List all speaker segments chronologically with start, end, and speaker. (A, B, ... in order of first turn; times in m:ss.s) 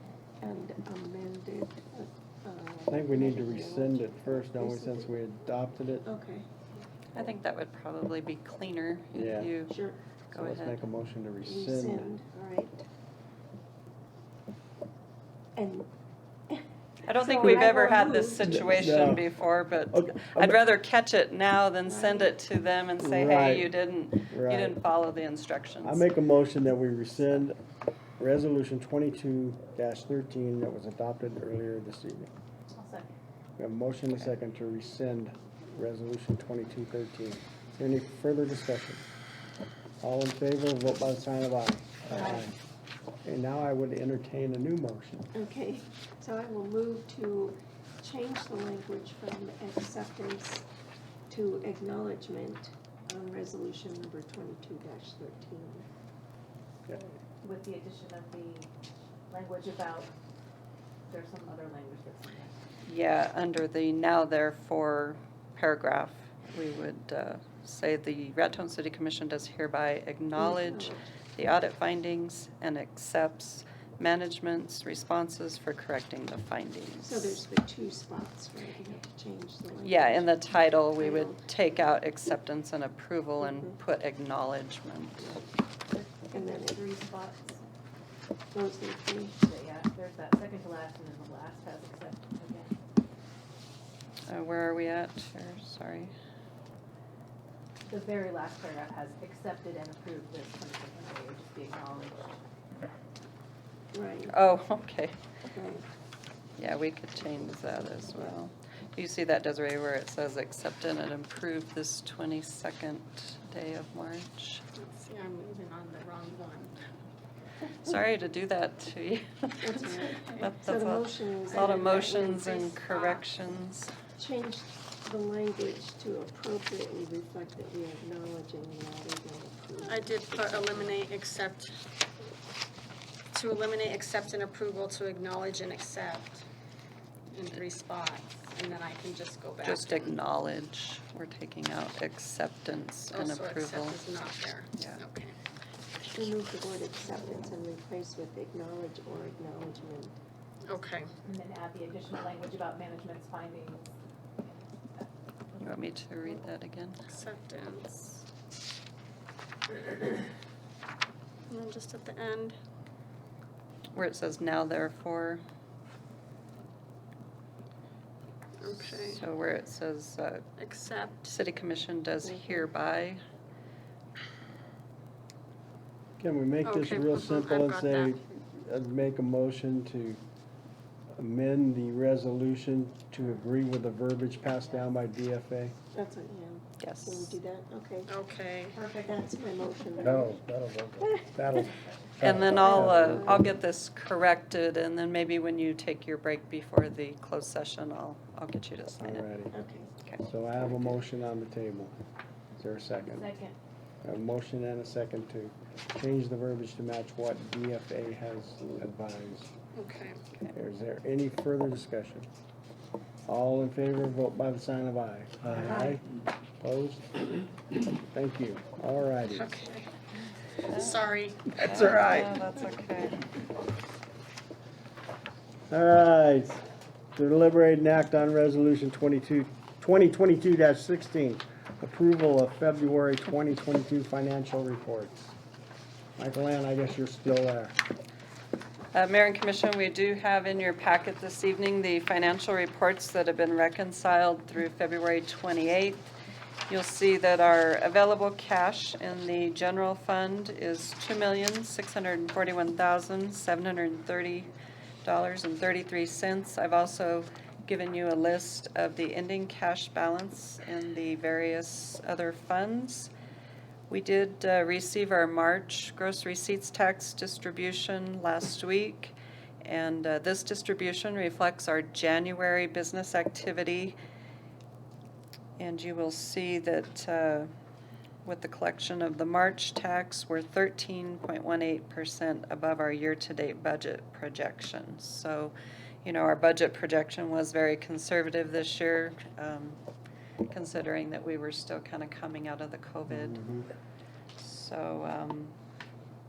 0:00.4-0:05.1 A
0:02.9-0:06.0 B
0:06.0-0:06.5 A
0:07.1-0:09.8 C
0:09.1-0:09.5 B
0:09.7-0:10.0 A
0:10.3-0:10.8 C
0:10.3-0:12.1 B
0:11.4-0:12.8 A
0:15.6-0:15.9 A
0:16.5-0:18.6 A
0:17.0-0:26.1 C
0:17.4-0:19.3 B
0:19.9-0:20.6 B
0:21.8-0:22.3 A
0:23.0-0:23.7 B
0:24.3-0:24.8 B
0:25.8-0:27.6 B
0:27.2-0:27.4 C
0:28.2-0:32.3 B
0:32.7-0:33.1 D
0:33.6-0:39.0 B
0:40.0-0:42.5 B
0:42.1-0:42.5 D
0:43.2-0:45.3 B
0:45.3-0:50.6 A
0:51.3-0:55.9 A
0:57.4-0:58.7 D
0:59.3-1:00.1 D
1:01.1-1:02.5 D
1:02.8-1:17.4 C
1:10.4-1:11.0 A
1:17.0-1:20.4 A
1:19.8-1:25.4 C
1:21.0-1:21.4 A
1:23.4-1:23.8 A
1:25.9-1:27.6 D
1:26.3-1:26.8 A
1:28.5-1:29.4 A
1:29.4-1:32.8 D
1:34.3-1:36.1 C
1:37.9-1:42.4 D
1:43.9-1:44.3 A
1:44.3-1:45.1 C
1:45.5-1:45.8 A
1:46.6-1:54.6 C
1:54.7-1:56.8 E
1:57.8-1:59.8 C
1:59.6-2:02.5 A
2:00.4-2:03.9 C
2:01.5-2:03.3 E
2:04.2-2:11.0 A
2:09.8-2:11.8 E
2:13.3-2:16.4 E
2:17.3-2:20.1 E
2:19.6-2:24.0 C
2:23.1-2:25.4 E
2:24.8-2:25.0 C
2:26.1-2:30.2 A
2:30.6-2:31.1 E
2:31.2-2:33.9 D
2:35.6-2:37.1 C
2:37.0-2:38.1 E
2:41.5-2:42.6 E
2:43.9-2:45.4 C
2:48.6-2:49.2 E
2:49.0-2:50.4 C
2:50.6-2:51.3 E
2:51.2-2:53.2 C
2:52.2-2:52.7 A
2:56.2-3:00.2 B
2:56.6-2:58.2 E
3:01.2-3:05.7 B
3:05.9-3:08.1 A
3:06.8-3:07.3 C
3:08.1-3:08.8 E
3:08.7-3:09.1 D
3:09.0-3:10.4 A
3:10.0-3:13.5 B
3:11.2-3:11.7 A
3:12.2-3:19.2 C
3:12.7-3:13.4 A
3:19.0-3:19.5 B
3:19.5-3:19.9 A
3:20.2-3:21.9 B
3:22.6-3:23.3 B
3:23.1-3:23.6 D
3:24.0-3:29.5 B
3:29.7-3:30.2 E
3:30.5-3:32.3 B
3:33.3-3:36.0 B
3:36.6-3:39.5 B
3:39.3-3:39.9 E
3:40.6-3:41.9 E
3:40.7-3:43.3 C
3:41.6-3:42.4 B
3:45.7-3:46.6 B
3:47.1-3:55.3 B
3:56.2-3:57.8 B
3:58.9-4:06.1 C
4:06.7-4:14.5 C
4:15.0-4:23.1 C
4:23.9-4:34.0 C
4:35.6-4:37.5 C
4:38.2-4:49.8 C
4:50.5-4:53.4 C
4:53.1-4:53.7 B
4:54.4-4:55.5 C